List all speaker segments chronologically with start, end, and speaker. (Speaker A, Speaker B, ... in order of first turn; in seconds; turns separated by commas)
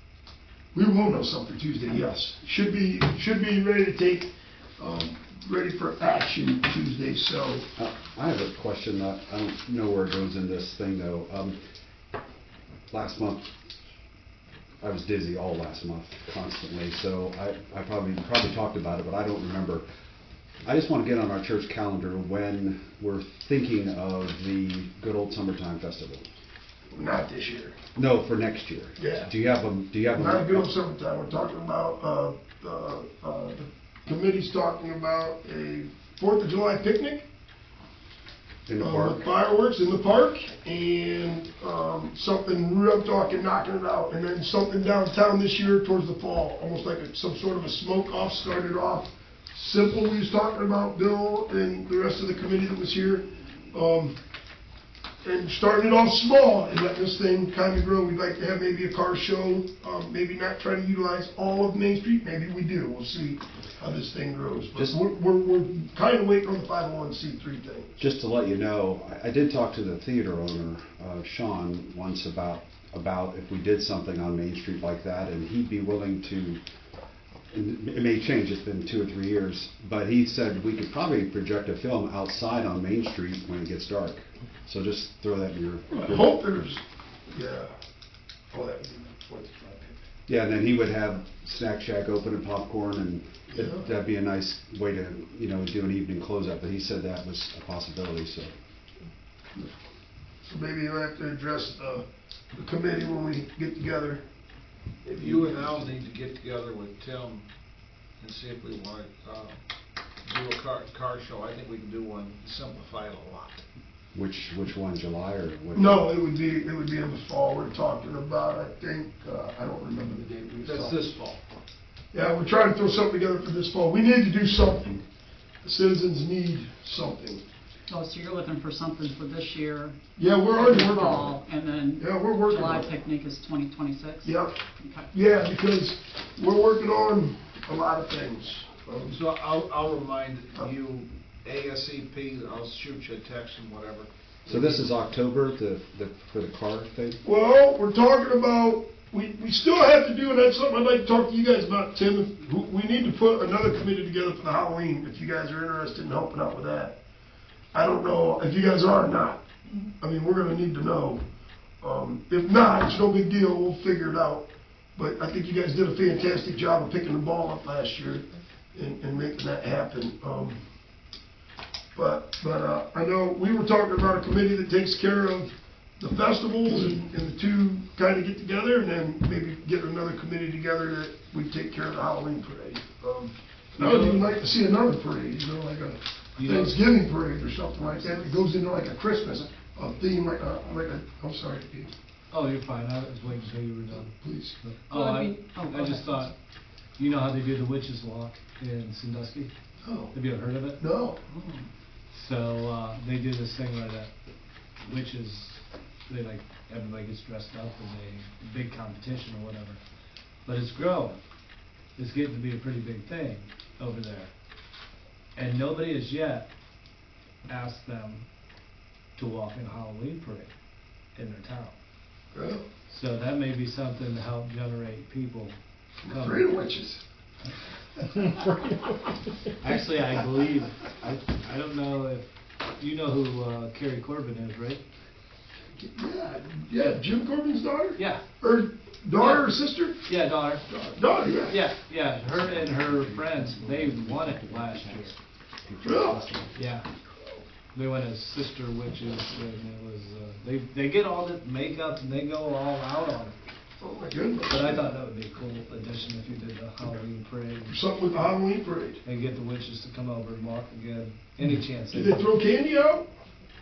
Speaker A: 0.7-7.7, Speaker B: 7.8-11.6, Speaker B: 12.9-13.5, Speaker B: 14.8-19.9, Speaker B: 20.6-26.2, Speaker A: 26.9-27.8, Speaker B: 27.9-30.7, Speaker A: 29.0-29.3, Speaker A: 30.1-37.2, Speaker B: 38.6-39.2, Speaker A: 38.8-54.1, Speaker A: 55.2-68.0, Speaker B: 64.7-65.0, Speaker B: 68.0-76.6, Speaker B: 77.5-86.3, Speaker A: 85.9-87.7, Speaker A: 88.5-90.0, Speaker B: 90.3-98.5, Speaker A: 93.5-93.9, Speaker A: 100.4-104.2, Speaker A: 105.0-105.9, Speaker C: 105.2-107.4, Speaker C: 108.2-109.6, Speaker C: 110.3-113.6, Speaker B: 114.1-116.0, Speaker A: 115.7-121.1, Speaker C: 120.6-121.4, Speaker A: 122.1-125.0, Speaker A: 125.6-127.4, Speaker D: 127.9-130.0, Speaker A: 130.2-131.3, Speaker D: 130.5-135.1, Speaker A: 132.0-132.9, Speaker A: 134.2-134.6, Speaker A: 135.1-139.2, Speaker C: 139.1-144.1, Speaker B: 144.5-147.2, Speaker A: 147.2-157.0, Speaker A: 157.7-159.5, Speaker A: 160.0-161.2, Speaker A: 161.8-170.6, Speaker A: 171.9-191.9, Speaker E: 183.8-184.3, Speaker E: 186.4-186.8, Speaker E: 192.3-196.3, Speaker A: 193.9-194.6, Speaker D: 194.9-196.3, Speaker E: 197.0-199.5, Speaker A: 199.8-200.1, Speaker E: 200.1-200.8, Speaker A: 200.8-201.2, Speaker E: 202.1-204.1, Speaker E: 204.8-209.8, Speaker E: 210.4-211.2, Speaker E: 211.9-214.3, Speaker E: 215.3-216.5, Speaker E: 217.4-218.3, Speaker E: 219.2-220.5, Speaker E: 221.1-221.7, Speaker A: 222.3-222.7, Speaker E: 222.9-225.6, Speaker A: 226.0-227.0, Speaker E: 226.1-226.4, Speaker A: 228.1-228.9, Speaker E: 229.6-234.8, Speaker A: 235.8-240.0, Speaker E: 238.0-238.2, Speaker E: 239.2-239.5, Speaker E: 240.1-240.6, Speaker A: 240.7-241.6, Speaker E: 241.5-245.2, Speaker B: 245.6-246.5, Speaker A: 245.8-246.2, Speaker E: 246.5-246.8, Speaker E: 247.7-253.3, Speaker A: 253.8-254.9, Speaker E: 254.5-257.8, Speaker A: 257.7-259.0, Speaker E: 259.0-262.3, Speaker A: 261.9-263.1